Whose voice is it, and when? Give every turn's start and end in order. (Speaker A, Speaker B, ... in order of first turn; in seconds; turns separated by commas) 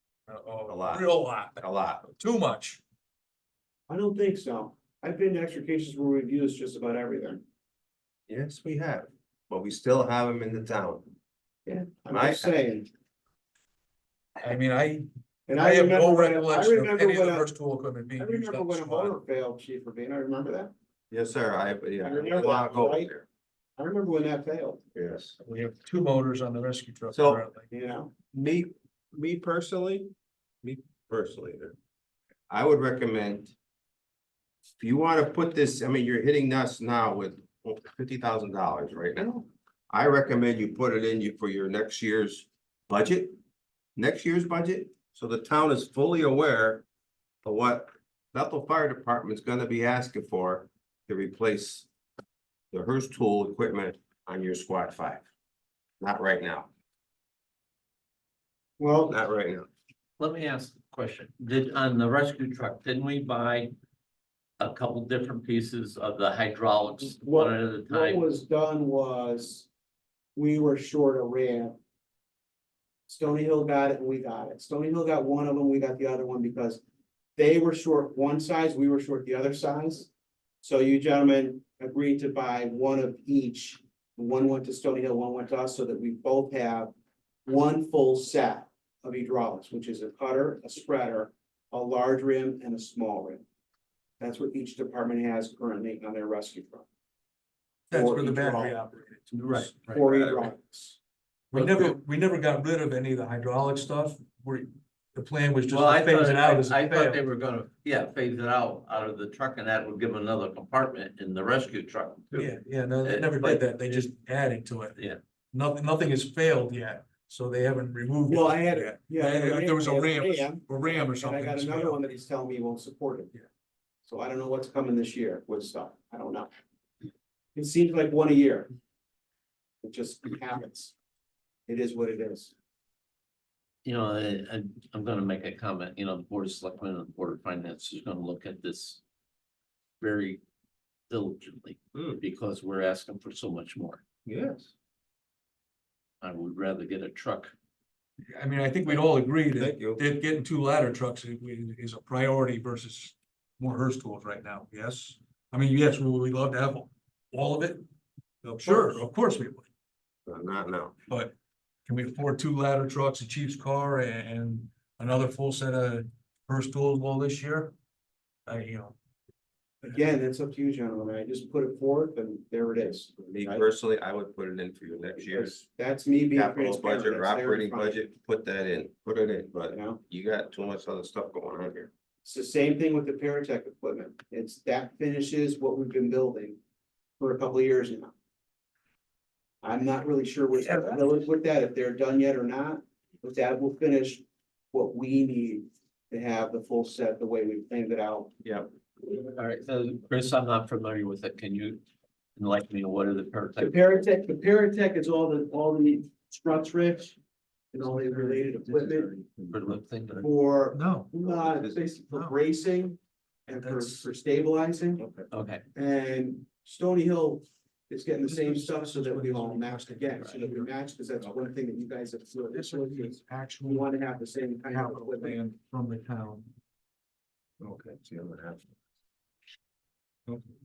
Speaker A: 0.3-2.8, Speaker B: 0.7-2.1, Speaker C: 3.9-7.4, Speaker B: 8.3-11.1, Speaker C: 11.7-12.9, Speaker B: 12.1-12.6, Speaker A: 14.4-19.2, Speaker C: 15.5-17.5, Speaker C: 18.2-20.7, Speaker B: 21.1-23.3, Speaker C: 22.0-23.1, Speaker C: 23.8-24.8, Speaker B: 24.9-25.4, Speaker A: 25.4-27.7, Speaker B: 27.1-27.4, Speaker C: 27.7-28.1, Speaker B: 28.3-30.1, Speaker B: 30.6-31.8, Speaker B: 32.5-33.5, Speaker B: 34.8-43.4, Speaker B: 44.0-46.9, Speaker B: 47.4-51.9, Speaker B: 52.7-55.3, Speaker B: 56.0-56.7, Speaker C: 58.8-59.1, Speaker B: 59.1-59.7, Speaker D: 60.2-63.7, Speaker D: 64.6-68.2, Speaker C: 67.2-69.7, Speaker C: 70.4-71.8, Speaker C: 73.1-76.8, Speaker C: 77.4-80.1, Speaker C: 80.6-86.9, Speaker C: 87.5-93.4, Speaker C: 94.2-96.8, Speaker C: 97.9-98.8, Speaker A: 97.9-99.7, Speaker D: 99.4-100.0, Speaker C: 99.8-101.0, Speaker B: 100.1-100.4, Speaker A: 101.5-107.2, Speaker C: 101.5-101.8, Speaker D: 105.7-112.5, Speaker A: 112.3-115.0, Speaker D: 113.0-114.1, Speaker A: 115.5-122.0, Speaker C: 118.3-123.3, Speaker C: 124.0-126.5, Speaker C: 127.5-128.7, Speaker C: 129.8-130.9, Speaker C: 131.7-132.5, Speaker D: 133.8-139.0, Speaker D: 140.0-140.4, Speaker D: 141.1-144.0, Speaker B: 141.9-142.2, Speaker B: 144.3-144.7, Speaker D: 146.2-147.5, Speaker A: 148.3-157.8, Speaker B: 149.6-150.0, Speaker A: 158.4-159.7, Speaker B: 160.3-161.0, Speaker A: 161.1-161.3, Speaker A: 161.9-167.7, Speaker A: 168.5-168.9, Speaker C: 169.8-173.7, Speaker B: 173.3-175.6, Speaker C: 175.3-178.0, Speaker B: 176.3-181.9, Speaker C: 179.7-180.0, Speaker C: 182.2-186.6, Speaker C: 187.2-188.1, Speaker C: 189.6-198.3, Speaker D: 199.2-201.8, Speaker D: 202.4-203.8, Speaker C: 203.6-207.2, Speaker C: 207.7-209.1, Speaker A: 207.8-209.1, Speaker B: 209.1-209.6, Speaker D: 209.5-210.3, Speaker C: 210.2-215.1, Speaker A: 210.7-211.2, Speaker B: 211.4-211.8, Speaker A: 212.1-212.4, Speaker A: 213.6-214.1, Speaker B: 215.0-215.3, Speaker D: 215.3-215.6, Speaker C: 215.7-225.4, Speaker A: 218.3-220.7, Speaker A: 222.5-223.9, Speaker A: 224.7-226.5, Speaker B: 227.6-228.7